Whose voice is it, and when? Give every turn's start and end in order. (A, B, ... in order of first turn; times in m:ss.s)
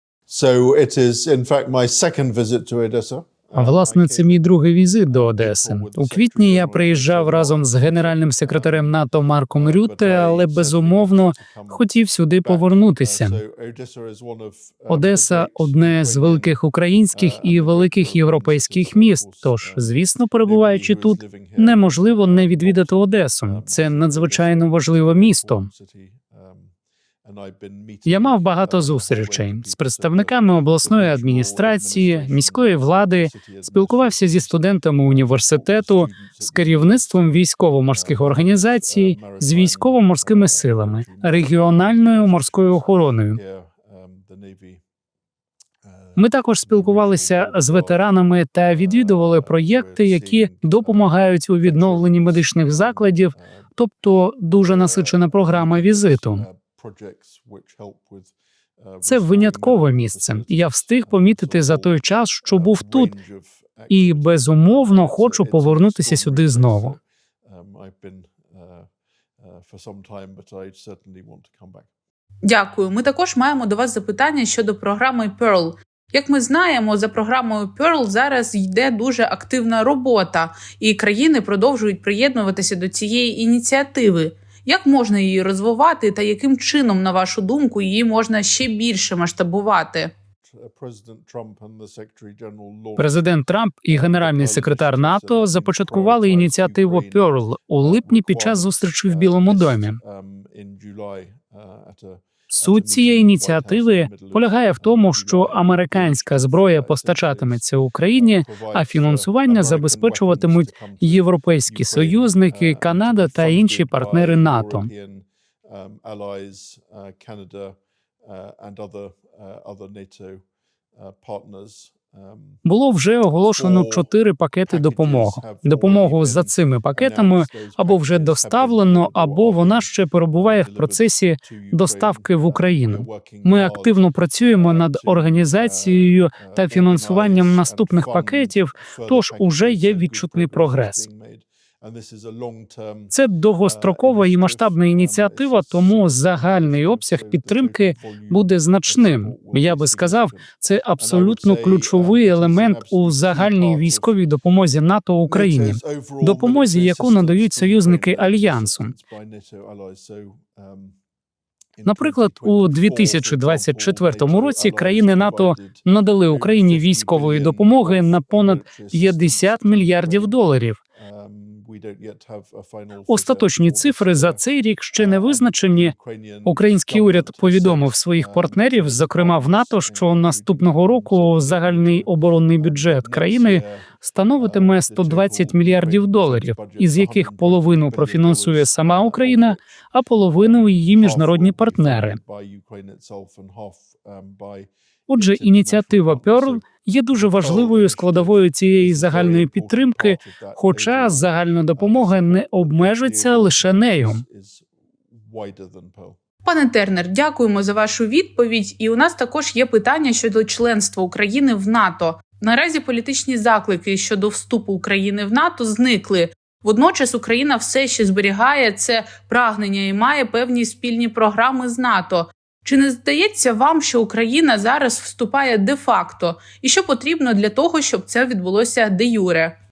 0:00.3-0:04.4 A
0:03.5-0:13.4 B
0:05.1-0:08.7 A
0:09.6-0:11.8 A
0:12.4-0:16.6 A
0:14.9-0:25.7 B
0:17.1-0:19.8 A
0:20.4-0:26.7 A
0:27.2-0:44.8 A
0:28.0-0:43.4 B
0:45.8-0:48.0 A
0:46.2-0:56.4 B
0:48.7-0:53.6 A
0:54.6-1:08.9 A
0:59.0-1:03.1 B
1:03.9-1:07.0 B
1:09.4-1:11.9 A
1:12.4-1:30.1 C
1:30.4-1:33.2 A
1:33.0-1:40.0 B
1:33.9-1:47.6 A
1:42.5-1:54.9 B
1:48.1-2:00.4 A
2:00.9-2:02.6 A
2:02.6-2:21.0 B
2:03.4-2:04.1 A
2:04.7-2:13.9 A
2:14.6-2:23.1 A
2:23.1-2:38.9 B
2:23.6-2:34.1 A
2:35.3-2:40.9 A
2:41.8-2:50.4 A
2:41.8-2:50.8 B
2:51.0-2:54.4 A
2:53.1-2:55.9 B
2:54.9-3:03.8 A
2:56.4-3:12.2 B
3:04.4-3:09.6 A
3:10.3-3:26.2 A
3:15.1-3:24.2 B
3:26.4-3:49.6 C